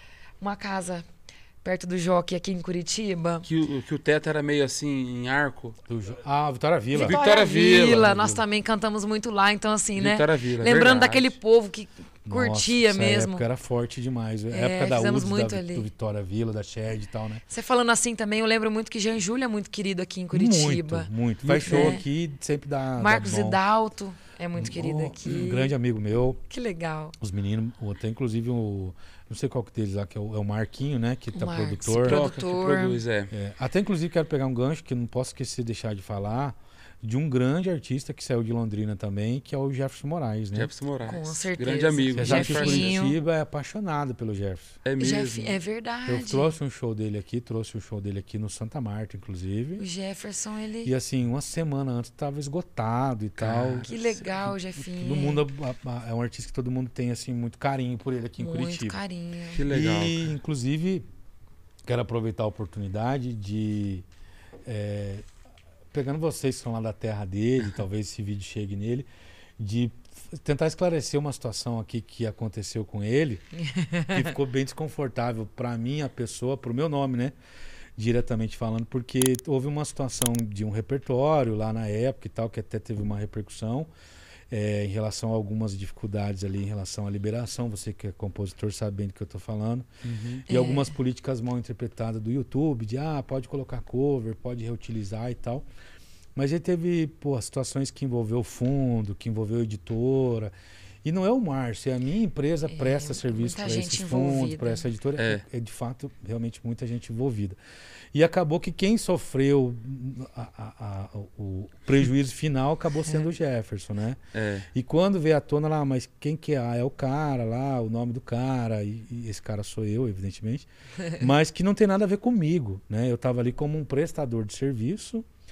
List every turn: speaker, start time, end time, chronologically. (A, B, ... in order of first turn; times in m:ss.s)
0:00.4-0:01.0 A
0:01.6-0:03.4 A
0:03.4-0:05.8 B
0:05.9-0:07.2 C
0:06.9-0:13.4 A
0:07.0-0:08.1 B
0:07.8-0:08.4 C
0:10.0-0:11.4 B
0:12.2-0:17.4 C
0:14.5-0:15.9 A
0:17.5-0:21.1 A
0:20.3-0:23.6 C
0:21.4-0:22.0 B
0:21.6-0:22.0 A
0:23.0-0:25.7 A
0:24.6-0:26.4 C
0:26.5-0:27.1 A
0:27.2-0:32.3 C
0:31.3-0:33.0 A
0:32.0-0:33.3 B
0:33.3-0:40.7 C
0:40.5-0:43.0 B
0:41.0-0:43.2 A
0:42.2-0:44.8 C
0:44.8-0:45.6 B
0:45.0-0:46.5 A
0:46.1-0:49.8 C
0:49.8-0:50.9 A
0:50.8-0:53.9 C
0:53.4-0:54.3 B
0:53.9-0:55.4 A
0:54.8-0:59.0 C
0:58.4-0:59.6 A
0:59.5-1:00.2 B
0:59.7-1:01.0 C
1:01.8-1:04.0 C
1:04.6-1:05.2 C
1:05.9-1:09.1 C
1:09.6-1:13.4 C
1:13.7-1:14.3 A
1:14.1-1:17.3 C
1:18.0-1:23.9 C
1:24.5-1:29.9 C
1:30.0-1:30.4 B
1:30.4-1:35.6 C
1:30.5-1:30.9 A
1:36.4-1:40.5 C
1:41.0-1:47.6 C
1:42.7-1:44.8 A
1:45.2-1:45.4 B
1:48.1-1:54.2 C
1:54.3-1:54.7 B
1:54.7-2:05.2 C